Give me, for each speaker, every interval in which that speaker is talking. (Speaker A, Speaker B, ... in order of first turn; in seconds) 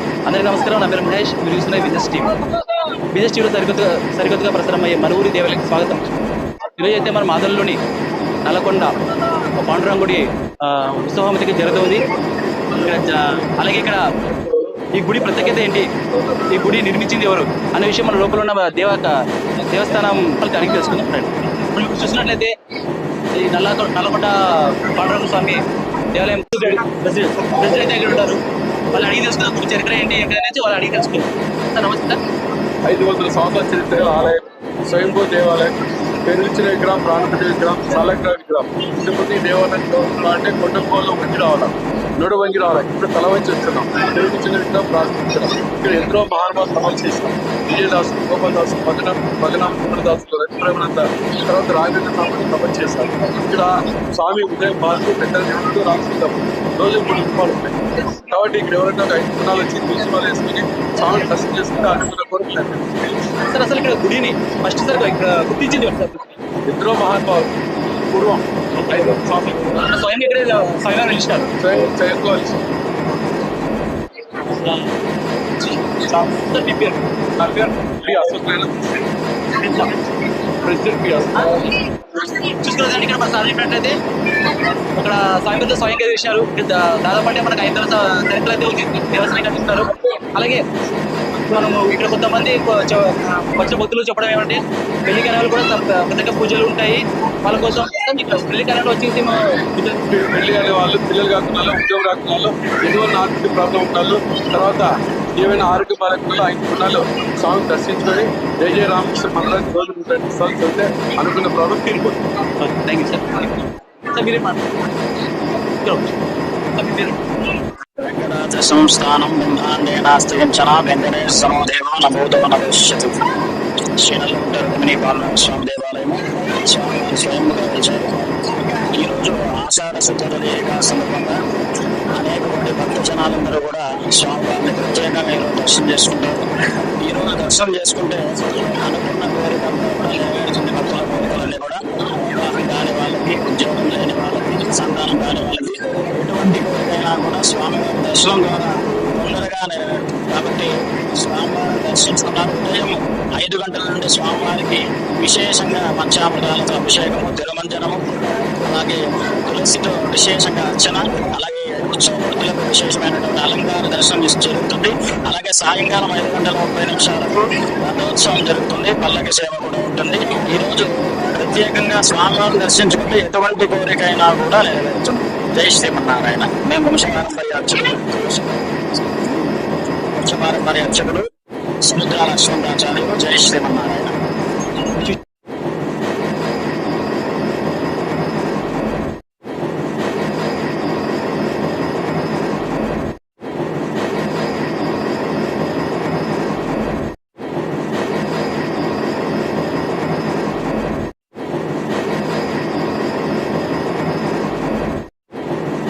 Speaker A: 0.3-2.3, 3.1-6.1, 6.8-7.8, 8.4-12.0, 12.7-19.1, 19.7-22.5, 23.3-32.2, 63.4-66.3, 69.6-71.5, 74.3-74.9, 75.4-77.0, 79.5-80.0, 81.3-90.6, 91.3-100.1, 112.6-113.5, 114.1-114.7, 115.5-116.1, 116.7-117.2
Speaker B: 32.9-62.9, 66.7-67.5, 68.1-69.8, 71.6-72.6, 77.3-79.0, 80.6-81.5, 100.1-112.2
Speaker C: 118.0-123.1, 124.0-136.4, 137.0-179.6, 180.1-181.3, 181.8-184.1